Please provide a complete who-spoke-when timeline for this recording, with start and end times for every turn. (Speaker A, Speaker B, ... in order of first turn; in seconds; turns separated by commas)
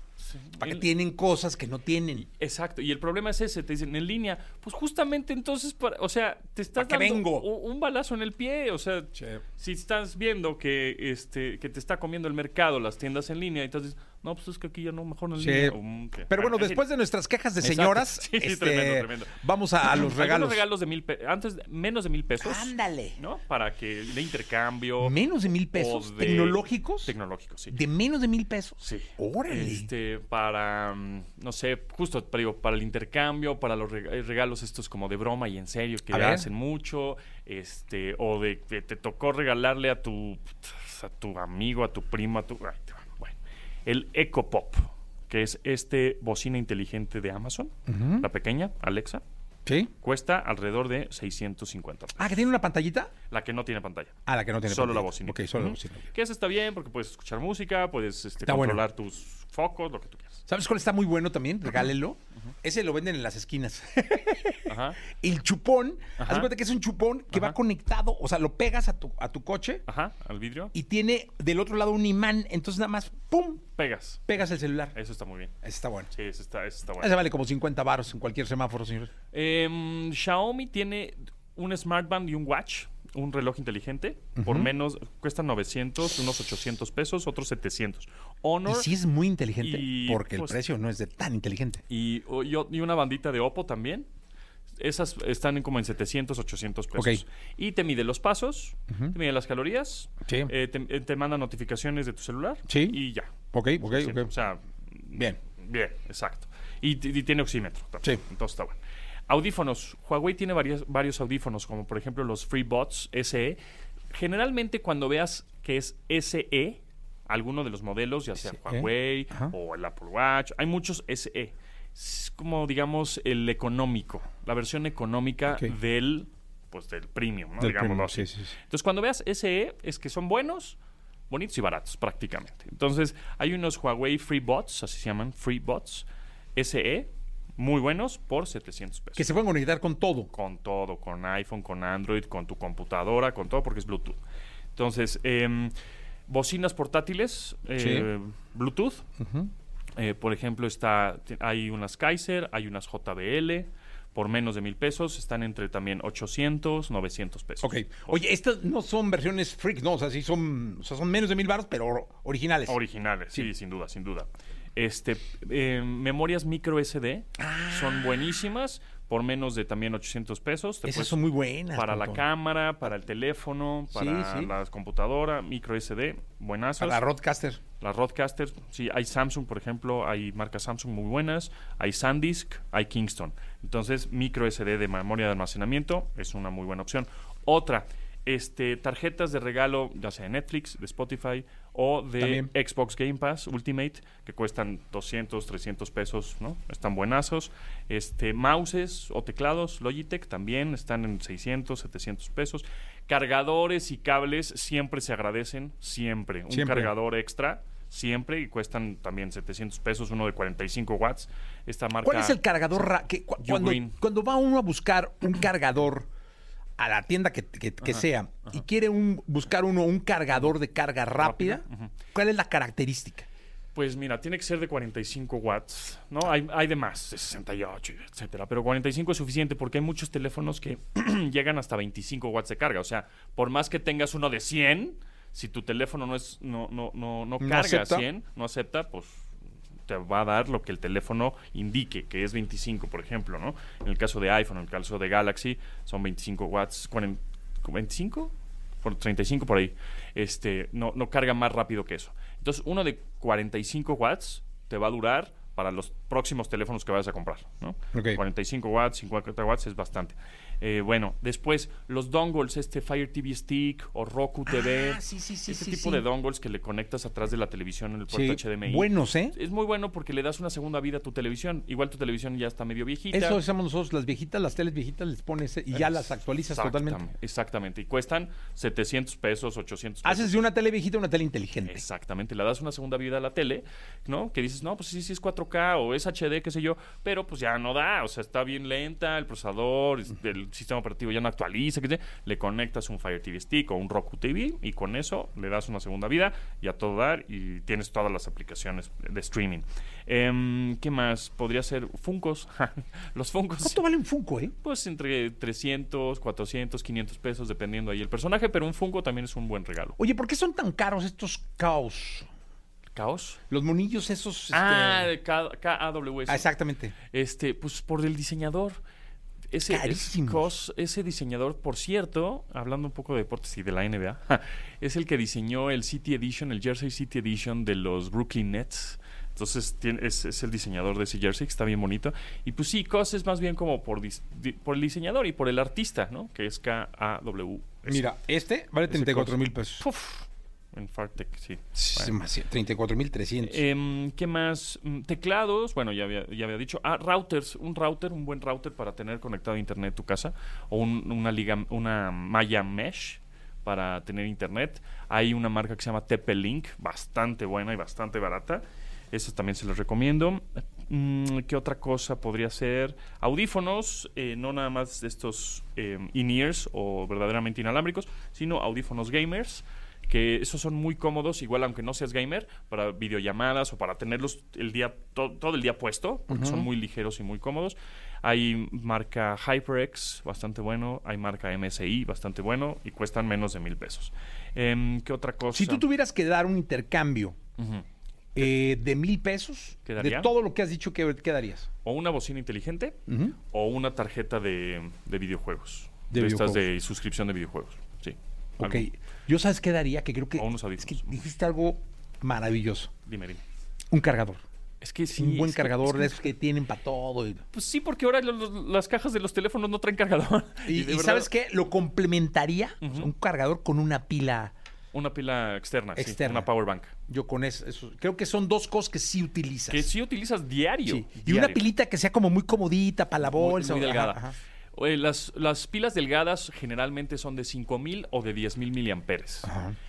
Speaker A: 0.2-0.9, Speaker B: 0.6-2.3, Speaker A: 2.4-16.9, Speaker B: 6.8-7.5, Speaker B: 15.4-20.6, Speaker A: 17.6-25.2, Speaker B: 22.4-23.2, Speaker B: 25.0-27.1, Speaker A: 25.7-27.8, Speaker B: 27.7-29.9, Speaker A: 28.8-49.2, Speaker B: 36.1-36.5, Speaker B: 47.9-48.3, Speaker B: 49.7-49.9, Speaker A: 50.0-52.5, Speaker B: 52.2-53.1, Speaker A: 53.3-60.4, Speaker B: 54.3-56.0, Speaker B: 58.5-58.8, Speaker B: 60.5-69.8, Speaker A: 64.7-65.0, Speaker A: 66.2-66.5, Speaker A: 69.9-70.7, Speaker B: 70.7-73.7, Speaker A: 73.8-75.5, Speaker B: 74.3-75.0, Speaker B: 75.6-76.1, Speaker A: 76.1-77.2, Speaker B: 77.0-79.1, Speaker A: 79.3-88.9, Speaker B: 84.4-84.7, Speaker B: 88.7-91.8, Speaker A: 89.6-90.6, Speaker A: 91.9-94.1, Speaker A: 94.8-113.6, Speaker B: 97.0-97.2, Speaker B: 98.9-99.2, Speaker B: 100.3-100.5, Speaker B: 102.7-103.0, Speaker B: 103.5-104.3, Speaker B: 105.1-105.4, Speaker A: 114.1-130.8, Speaker B: 118.4-119.5, Speaker B: 127.6-128.5, Speaker A: 131.3-139.3, Speaker B: 139.2-140.3, Speaker A: 140.3-144.2, Speaker A: 144.8-145.7, Speaker A: 146.3-149.1, Speaker B: 147.8-148.1, Speaker B: 149.2-149.5, Speaker A: 150.0-158.2, Speaker B: 157.6-162.8, Speaker A: 162.7-171.2, Speaker B: 167.4-168.2, Speaker B: 170.8-172.2, Speaker A: 171.7-177.0, Speaker B: 173.9-174.5, Speaker B: 176.8-177.6, Speaker A: 177.8-212.4, Speaker B: 192.2-192.5, Speaker B: 206.5-206.9, Speaker B: 212.0-216.1, Speaker A: 213.4-214.0, Speaker B: 216.8-223.3, Speaker A: 217.8-218.6, Speaker A: 221.2-221.9, Speaker A: 223.7-239.3, Speaker B: 237.4-238.1, Speaker A: 239.9-273.4, Speaker B: 257.9-258.2, Speaker B: 264.5-266.1, Speaker B: 268.1-269.4, Speaker B: 273.1-277.0, Speaker A: 275.7-280.5, Speaker B: 280.0-281.9, Speaker A: 281.6-303.8, Speaker B: 303.6-304.6, Speaker A: 304.6-310.0, Speaker B: 310.0-312.3, Speaker A: 312.9-313.4, Speaker B: 313.5-315.1, Speaker A: 314.5-316.5, Speaker B: 316.3-316.9, Speaker A: 317.0-318.8, Speaker A: 319.5-338.1, Speaker B: 319.7-320.5, Speaker B: 337.9-339.9, Speaker A: 338.9-342.2, Speaker B: 341.8-343.6, Speaker A: 343.4-385.9, Speaker B: 376.3-376.7, Speaker B: 385.5-387.4, Speaker A: 387.6-387.9, Speaker B: 388.4-391.7, Speaker A: 389.9-390.3, Speaker A: 391.8-398.9, Speaker B: 393.1-393.4, Speaker B: 396.1-396.7, Speaker B: 398.6-402.9, Speaker A: 400.4-401.2, Speaker A: 403.1-403.4, Speaker B: 403.9-404.4, Speaker A: 404.8-406.1, Speaker B: 405.1-407.4, Speaker A: 407.5-411.3, Speaker B: 410.6-414.5, Speaker A: 412.8-413.1, Speaker A: 414.9-416.9, Speaker B: 415.9-416.5, Speaker B: 417.1-419.9, Speaker A: 419.7-421.6, Speaker B: 420.9-424.4, Speaker A: 423.2-424.2, Speaker A: 424.7-429.5, Speaker B: 429.4-429.8